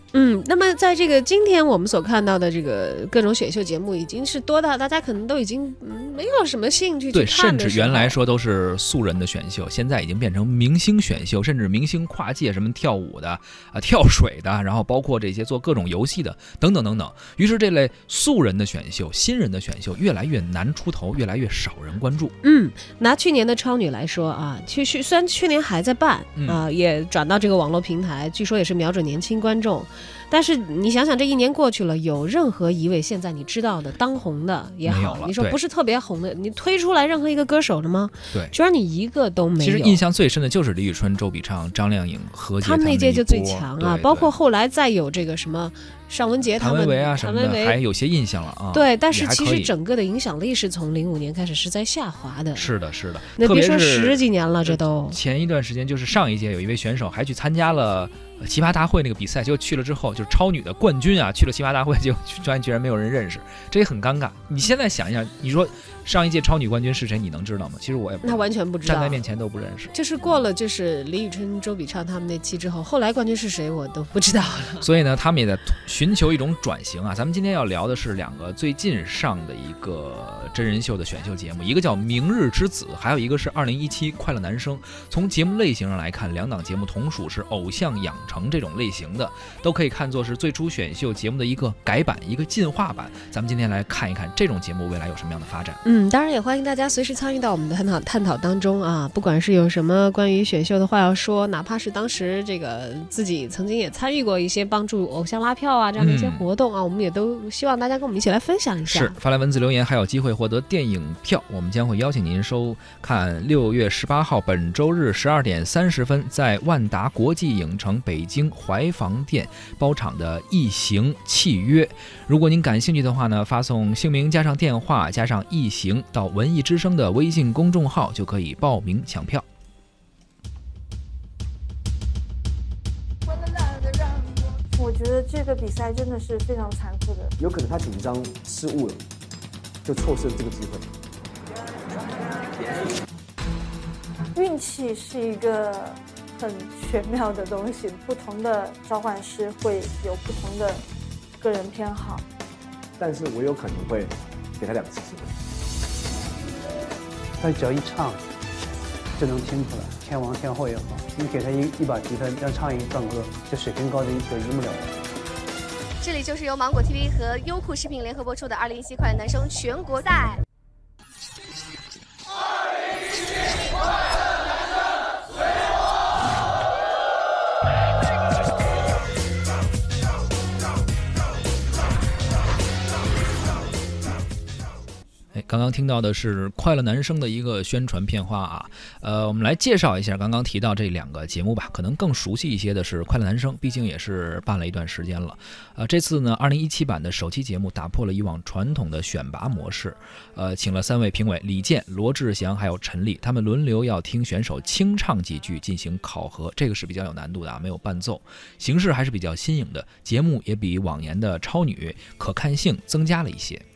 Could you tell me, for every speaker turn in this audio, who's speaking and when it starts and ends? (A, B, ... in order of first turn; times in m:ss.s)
0:00.1-0:08.2 A
0:07.1-0:22.3 B
0:22.4-0:40.0 A
0:26.4-0:26.6 B
0:34.8-0:35.6 B
0:39.6-0:44.3 B
0:42.6-0:47.8 A
0:46.6-0:49.7 B
0:48.7-0:52.7 A
0:52.6-1:09.9 B
0:53.4-0:55.2 A
1:08.2-1:09.2 A
1:09.9-1:14.8 A
1:14.8-1:35.8 B
1:35.8-1:49.2 A
1:46.0-1:46.5 B
1:48.9-2:09.4 B
2:14.7-2:17.3 C
2:17.4-2:19.0 D
2:19.8-2:20.8 D
2:24.3-2:30.8 C
2:31.4-2:32.2 C
2:33.0-2:35.3 D
2:37.4-2:38.2 E
2:39.2-2:44.9 E
2:46.0-2:50.4 F
3:05.3-3:33.6 B